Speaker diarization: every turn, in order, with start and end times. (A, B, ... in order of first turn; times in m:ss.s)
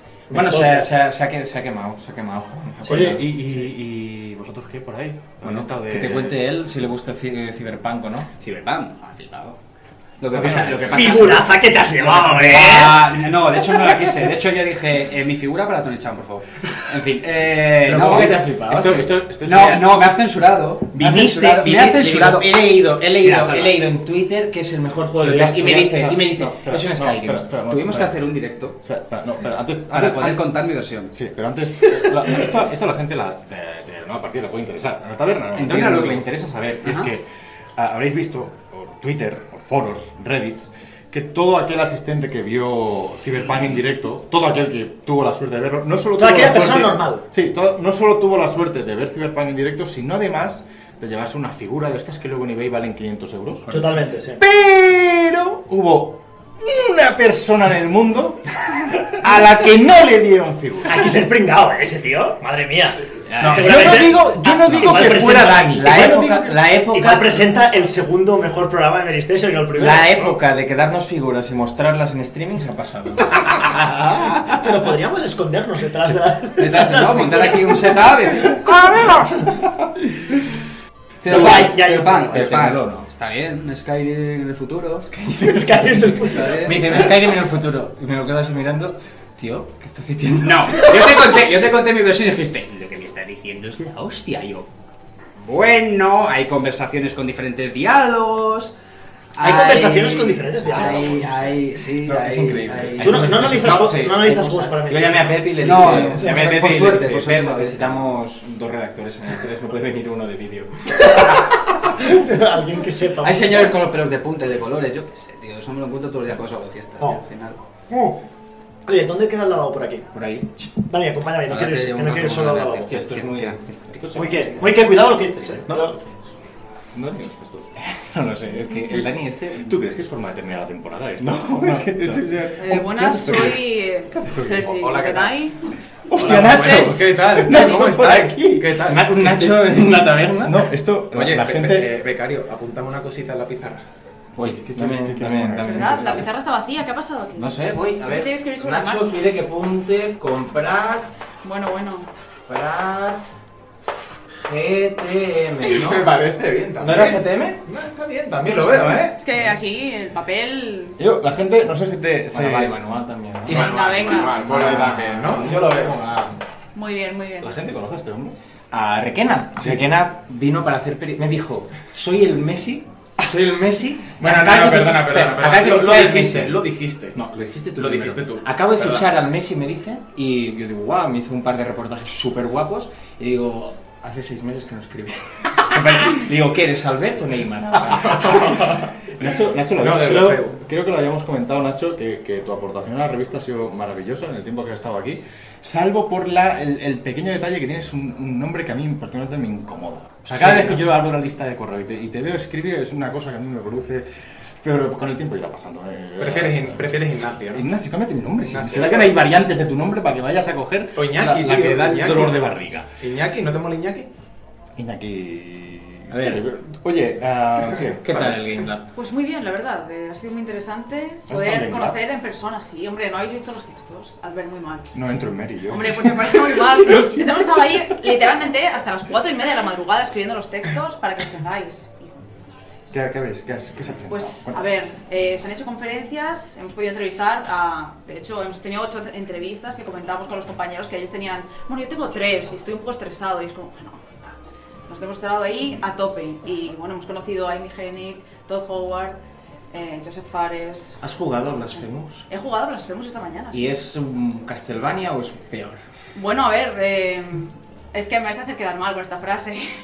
0:00.3-0:00.9 A
0:00.3-0:03.3 B
0:02.8-0:06.4 C
0:05.4-0:08.3 B
0:08.4-0:09.6 D
0:10.2-0:11.5 D
0:10.3-0:10.9 C
0:10.4-0:10.9 B
0:10.9-0:13.3 A
0:12.2-0:22.6 D
0:17.8-0:19.8 B
0:17.9-0:19.8 C
0:20.9-0:27.5 B
0:23.1-0:23.9 D
0:25.1-0:28.3 C
0:27.6-0:28.8 D
0:28.8-0:30.5 C
0:29.9-0:31.1 D
0:31.1-1:01.1 C
0:35.6-0:36.2 D
0:36.8-0:37.1 D
0:46.2-0:47.2 A
0:53.7-0:54.4 A
0:59.2-0:59.7 B
1:00.9-1:10.3 A
1:03.3-1:04.0 D
1:03.4-1:07.6 B
1:03.4-1:06.0 C
1:09.7-1:13.7 B
1:14.3-1:19.5 A
1:16.6-1:18.6 D
1:21.2-1:27.1 D
1:21.3-1:22.5 A
1:21.3-1:23.1 B
1:25.4-1:27.0 A
1:26.6-1:30.9 B
1:30.4-1:34.7 D
1:35.4-1:38.7 D
1:39.4-1:44.8 D
1:39.4-1:41.3 A
1:41.1-1:41.4 B
1:42.0-1:44.3 B
1:43.0-1:46.3 A
1:44.8-1:51.0 B
1:45.6-1:48.0 D
1:51.1-1:51.4 A
1:52.0-1:53.8 A
1:53.2-1:57.6 D
1:57.9-1:58.2 A
1:58.9-2:00.1 A
2:00.1-2:00.5 B
2:00.8-2:03.0 A
2:01.5-2:04.6 D
2:02.7-2:05.9 B
2:04.0-2:04.5 C
2:04.2-2:06.0 A
2:06.9-2:07.8 C
2:08.0-2:09.8 B
2:09.6-2:13.6 C
2:11.2-2:12.5 B
2:12.6-2:15.6 E
2:14.3-2:14.5 C
2:14.6-2:15.4 F
2:16.1-2:19.7 C
2:16.2-2:19.4 F
2:16.4-2:17.0 E
2:18.9-2:20.7 B
2:20.4-2:21.9 C
2:21.1-2:23.8 F
2:24.4-2:26.2 B
2:24.4-2:26.3 C
2:25.6-2:29.2 E
2:27.4-2:31.1 B
2:31.4-2:32.1 E
2:32.5-2:33.2 B
2:34.4-2:36.1 B
2:35.8-2:39.2 F
2:36.8-2:37.6 B
2:38.5-2:39.0 C
2:39.0-2:41.0 E
2:41.0-2:42.8 C
2:42.3-2:43.6 B
2:43.5-2:46.0 F
2:43.5-2:44.5 E
2:44.4-2:46.3 C
2:44.6-2:45.6 B
2:46.8-2:47.6 E
2:47.4-2:48.4 C
2:48.7-3:09.7 B
2:54.2-2:57.2 F
2:57.8-2:59.1 F
3:08.0-3:08.7 F
3:09.2-3:24.1 C
3:09.7-3:10.6 F
3:20.3-3:21.0 B
3:24.6-3:32.9 C
3:26.2-3:27.7 F
3:28.4-3:29.2 F
3:31.0-3:32.5 F
3:33.0-3:34.1 F
3:34.8-3:38.4 C
3:36.1-3:36.5 B
3:37.8-3:38.9 B
3:38.9-3:44.9 E
3:41.3-3:42.0 C
3:44.9-3:47.3 C
3:45.7-3:52.2 E
3:52.9-3:54.9 C
3:54.1-4:04.3 E
4:04.9-4:09.2 E
4:09.7-4:11.0 E
4:11.0-4:12.2 B
4:12.3-4:13.9 E
4:13.5-4:15.8 B
4:16.1-4:19.7 E